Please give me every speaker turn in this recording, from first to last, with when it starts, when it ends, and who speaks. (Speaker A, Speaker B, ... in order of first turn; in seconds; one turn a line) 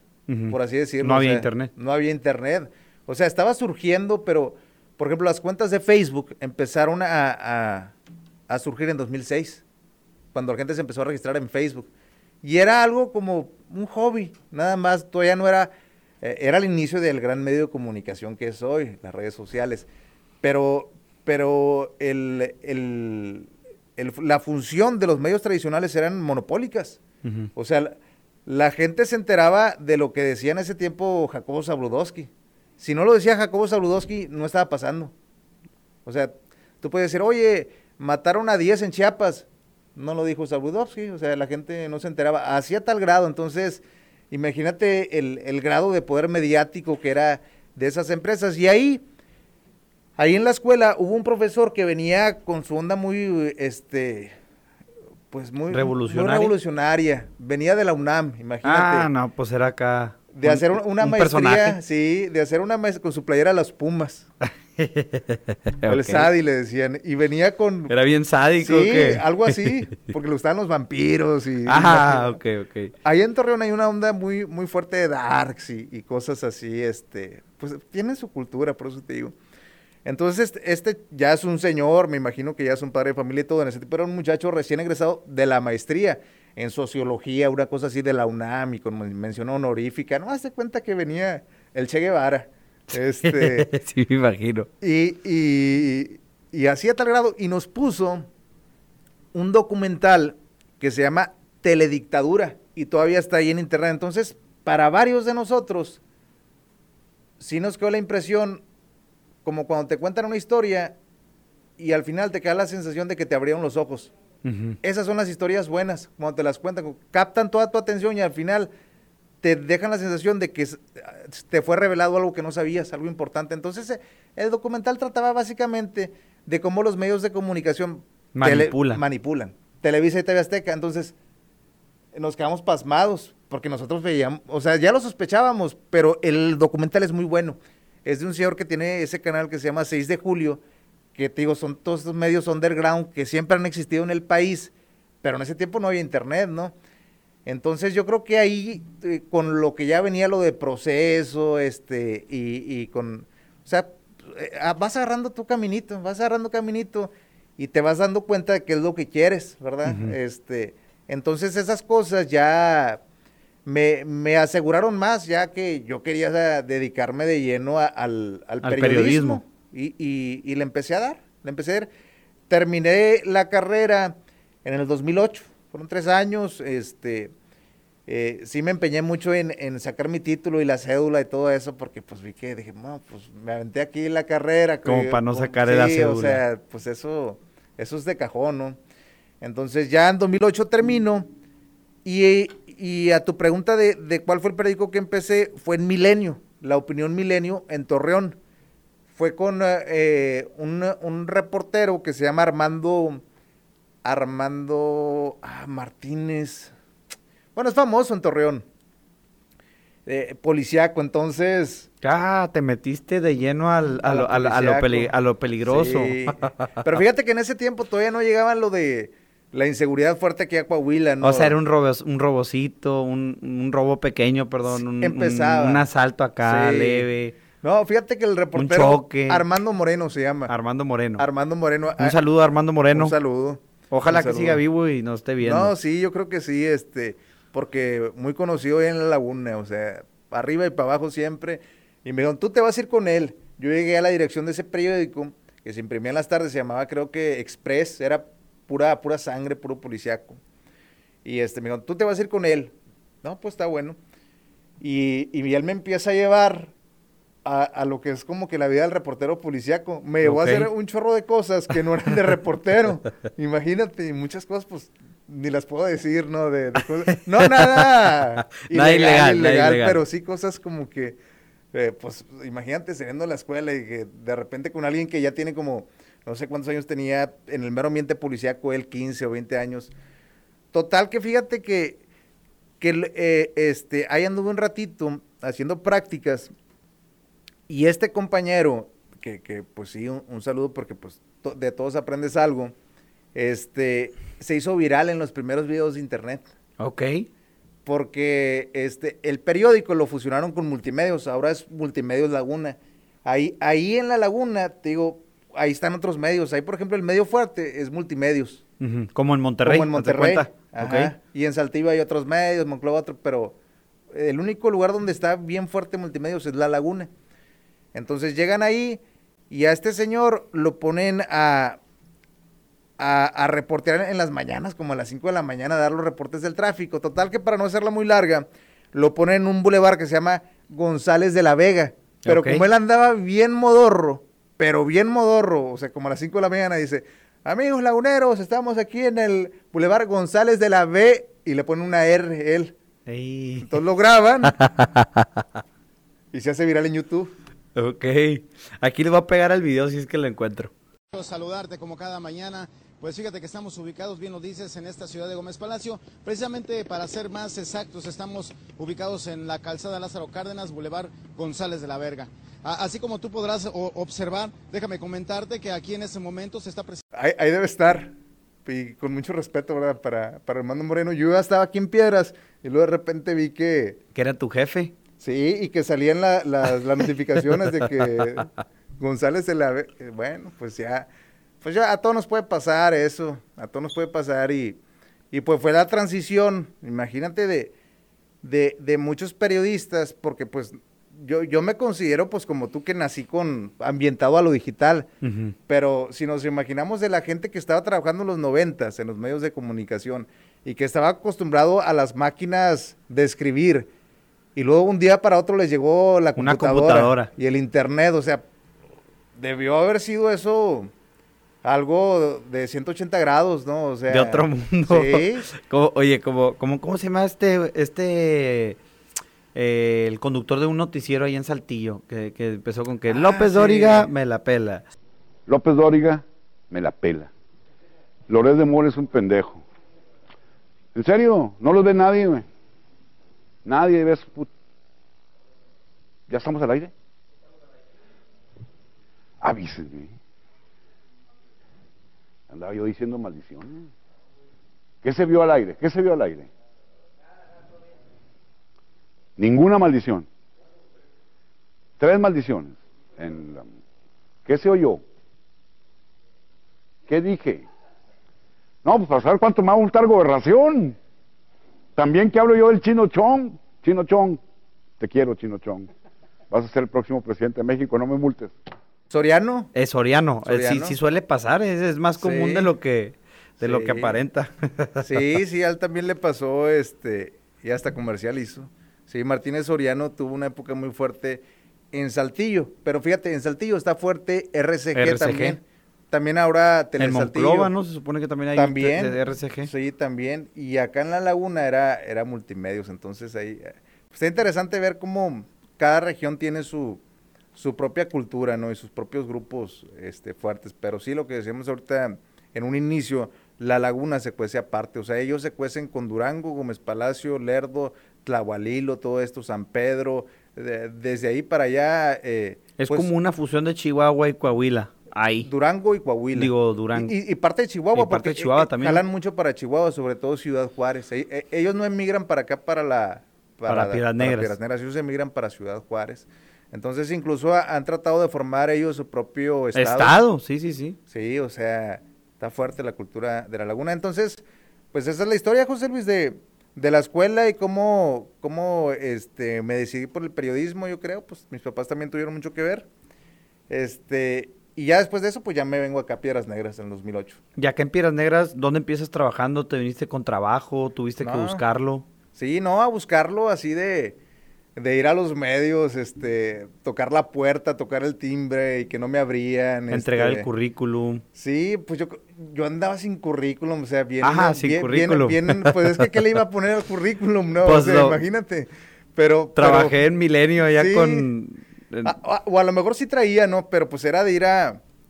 Speaker A: 0.3-1.7
Speaker B: 0.5-7.9
Speaker B: 8.5-9.6
Speaker B: 10.3-11.9
Speaker B: 12.4-19.9
Speaker B: 20.4-27.0
Speaker A: 27.2-27.5
Speaker B: 27.6-35.1
Speaker B: 36.0-49.0
Speaker B: 50.2-54.3
Speaker B: 55.3-59.1
Speaker A: 55.7-56.5
Speaker A: 58.6-61.8
Speaker B: 60.3-64.3
Speaker A: 64.8-66.3
Speaker B: 65.9-67.9
Speaker A: 67.9-69.5
Speaker B: 68.6-72.4
Speaker A: 71.7-72.9
Speaker B: 73.0-79.3
Speaker B: 80.0-93.7
Speaker A: 93.2-94.7
Speaker B: 94.8-98.3
Speaker B: 99.3-106.0
Speaker B: 107.4-108.6
Speaker B: 109.4-111.0
Speaker B: 111.8-114.1
Speaker A: 114.4-114.8
Speaker B: 114.8-118.7
Speaker B: 119.4-131.1
Speaker A: 128.3-129.0
Speaker B: 132.1-140.6
Speaker B: 141.1-146.7
Speaker B: 147.4-163.0
Speaker A: 159.8-160.1
Speaker B: 163.6-171.9
Speaker A: 168.6-169.4
Speaker B: 172.5-177.3
Speaker B: 178.1-188.8
Speaker A: 184.8-186.4
Speaker B: 189.4-191.3
Speaker B: 192.0-198.4
Speaker B: 199.1-203.2
Speaker B: 204.0-206.7
Speaker B: 207.5-208.6
Speaker B: 210.1-211.9
Speaker A: 212.0-216.8
Speaker B: 214.0-221.6
Speaker A: 221.2-227.3
Speaker B: 224.6-225.8
Speaker B: 226.4-227.1
Speaker B: 227.6-230.5
Speaker A: 228.5-229.4
Speaker A: 230.5-231.2
Speaker B: 231.2-232.2
Speaker A: 232.0-233.1
Speaker B: 232.9-234.6
Speaker A: 233.9-235.7
Speaker B: 235.4-250.4
Speaker B: 251.2-254.0
Speaker B: 254.8-256.7
Speaker B: 257.4-271.2
Speaker A: 260.2-260.7
Speaker A: 267.1-267.9
Speaker A: 268.6-270.0
Speaker B: 271.7-279.9
Speaker B: 280.7-282.0
Speaker B: 282.8-286.5
Speaker B: 287.7-292.7
Speaker B: 293.3-296.4
Speaker A: 296.8-297.3
Speaker B: 297.9-308.6
Speaker A: 308.8-311.1
Speaker B: 309.6-313.6
Speaker B: 314.1-317.1
Speaker B: 317.9-321.8
Speaker B: 323.0-342.7
Speaker A: 332.2-332.6
Speaker A: 343.1-343.7
Speaker B: 343.6-344.6
Speaker A: 344.4-345.4
Speaker B: 346.3-347.3
Speaker A: 347.7-350.7
Speaker C: 351.1-367.0
Speaker B: 367.1-368.1
Speaker B: 368.6-374.0
Speaker A: 374.1-374.9
Speaker B: 375.2-381.1
Speaker B: 381.6-384.8
Speaker B: 385.3-387.7
Speaker B: 388.4-395.1
Speaker A: 395.2-395.5
Speaker B: 395.7-403.9
Speaker B: 404.5-408.4
Speaker A: 406.4-407.3
Speaker B: 409.4-410.9
Speaker B: 411.6-415.5
Speaker A: 414.1-418.8
Speaker A: 419.5-424.8
Speaker B: 423.1-424.1
Speaker D: 425.5-427.3
Speaker D: 428.3-429.6
Speaker D: 430.9-432.4
Speaker D: 433.6-434.5
Speaker D: 436.3-436.9
Speaker D: 439.4-440.1
Speaker D: 442.5-443.9
Speaker D: 445.0-446.5
Speaker D: 449.4-450.3
Speaker D: 452.0-453.7
Speaker D: 454.4-455.0
Speaker D: 457.1-457.6
Speaker D: 458.8-460.9
Speaker D: 461.9-464.4
Speaker D: 465.0-465.9
Speaker D: 466.5-468.6
Speaker B: 469.1-469.7
Speaker A: 469.7-475.1
Speaker B: 470.4-471.0
Speaker B: 472.2-472.7
Speaker B: 473.6-474.2
Speaker B: 475.0-487.7
Speaker A: 484.9-485.6
Speaker A: 487.0-489.7
Speaker B: 488.5-497.0
Speaker B: 497.5-513.1
Speaker A: 512.8-515.5
Speaker B: 515.4-530.2
Speaker A: 516.3-517.1
Speaker A: 517.9-519.0
Speaker A: 523.7-524.5
Speaker A: 529.7-531.0
Speaker B: 531.1-542.9
Speaker B: 543.7-547.4
Speaker A: 547.6-552.0
Speaker B: 551.2-551.6
Speaker B: 552.3-554.2
Speaker B: 554.8-560.5
Speaker A: 559.9-561.2
Speaker B: 561.3-570.0
Speaker A: 564.2-566.1
Speaker A: 567.6-568.2
Speaker A: 569.6-572.1
Speaker B: 570.7-571.3
Speaker B: 572.0-574.8